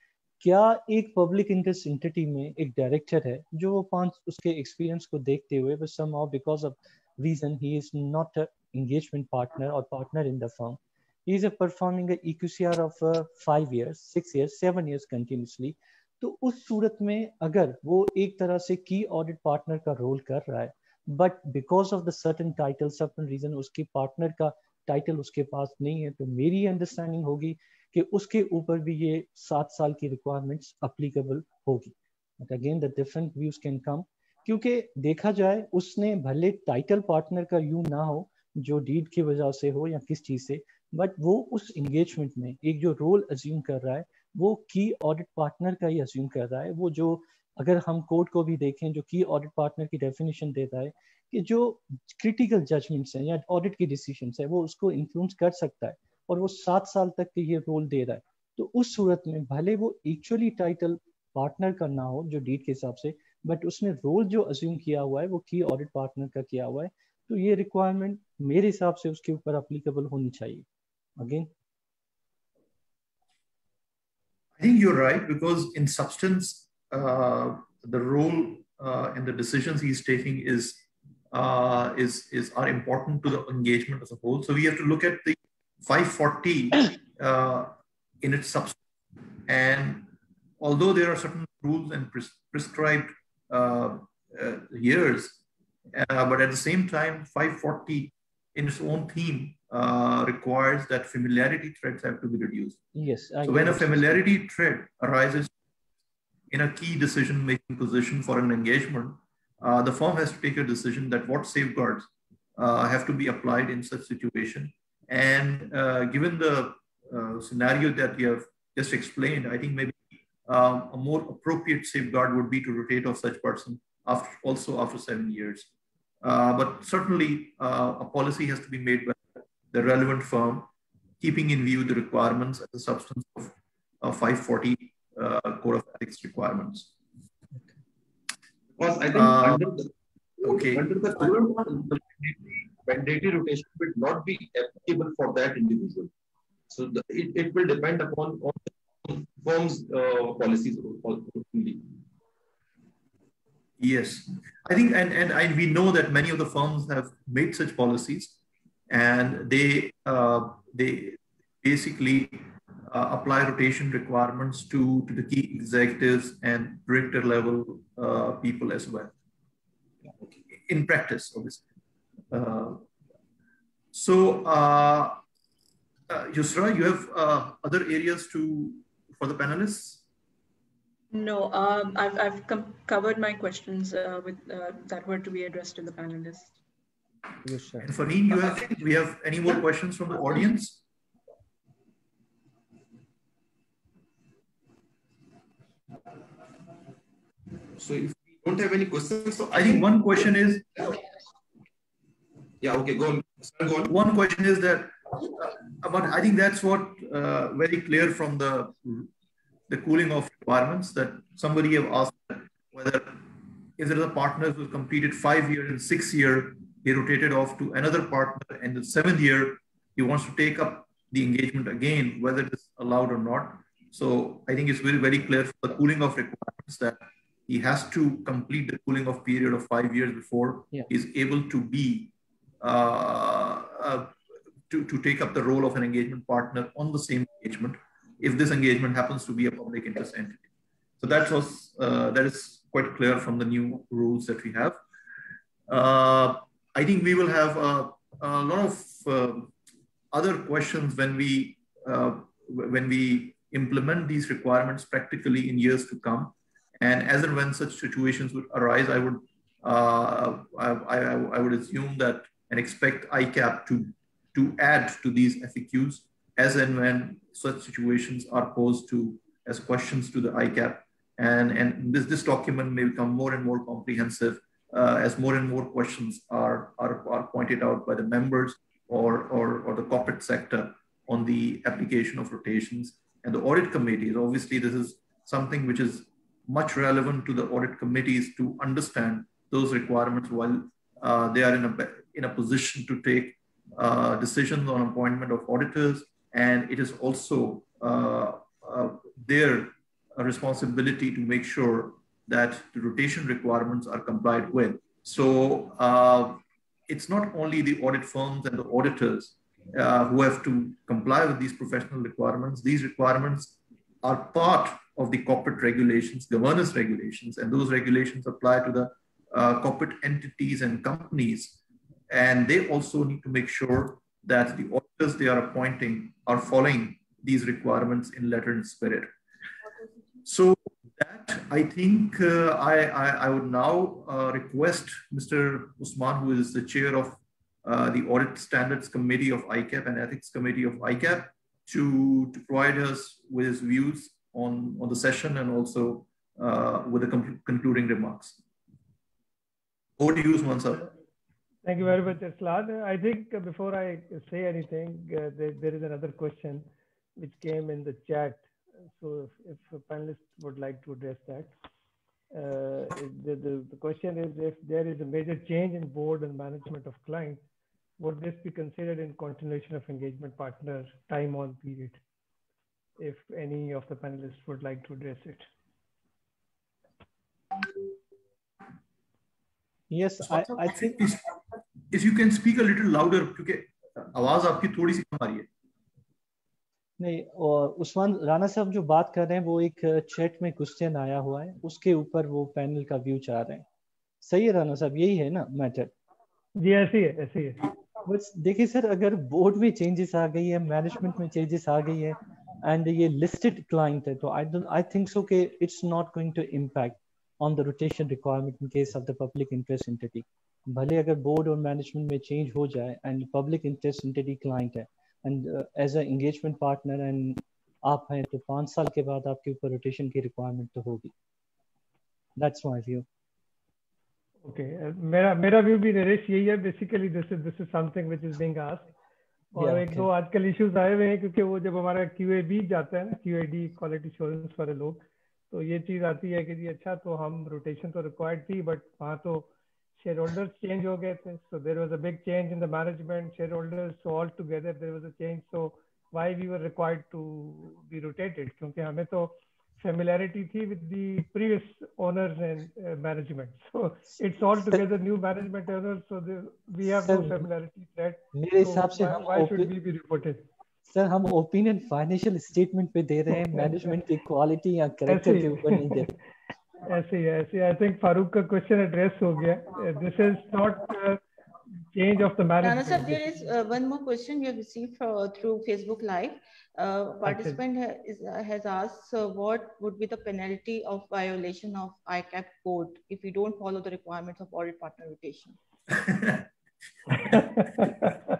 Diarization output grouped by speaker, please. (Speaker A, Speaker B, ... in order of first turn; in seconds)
Speaker A: 0.4-70.7, 71.2-71.5, 103.0-104.2, 187.4-187.9, 379.9-381.0, 387.0-393.6, 394.2-395.9, 398.1-421.1, 422.4-423.1, 429.6-430.1, 454.6-454.8, 456.8-457.4, 458.3-459.7, 460.9-466.1
Speaker B: 74.6-88.8, 89.5-95.4, 95.9-102.8, 103.4-105.5, 106.5-125.7, 126.2-130.7, 131.2-136.9, 139.1-139.7, 140.4-141.4, 153.8-158.4, 158.9-169.1, 170.5-171.7, 172.3-172.8, 173.9-175.2, 176.1-180.0, 187.8-190.8, 199.5-200.9, 203.9-209.1, 209.7-213.2, 213.8-234.1, 234.7-240.4, 241.0-244.8, 245.7-249.5, 250.1-321.6, 322.1-329.1, 330.2-348.4, 350.0-350.9, 380.2-381.4, 381.9-385.5, 485.9-486.5
Speaker C: 138.8-146.1, 146.7-151.9, 197.8-199.9, 202.6-203.9
Speaker D: 181.1-186.6
Speaker E: 351.6-356.7, 357.2-358.4, 359.0-361.5, 362.3-367.4, 368.0-372.0, 373.0-375.4, 396.6-397.6, 424.4-428.9, 429.5-460.4, 463.3-463.9, 465.1-466.1, 466.8-471.2, 471.9-473.2, 477.2-477.6, 487.3-487.9
Speaker F: 472.6-485.6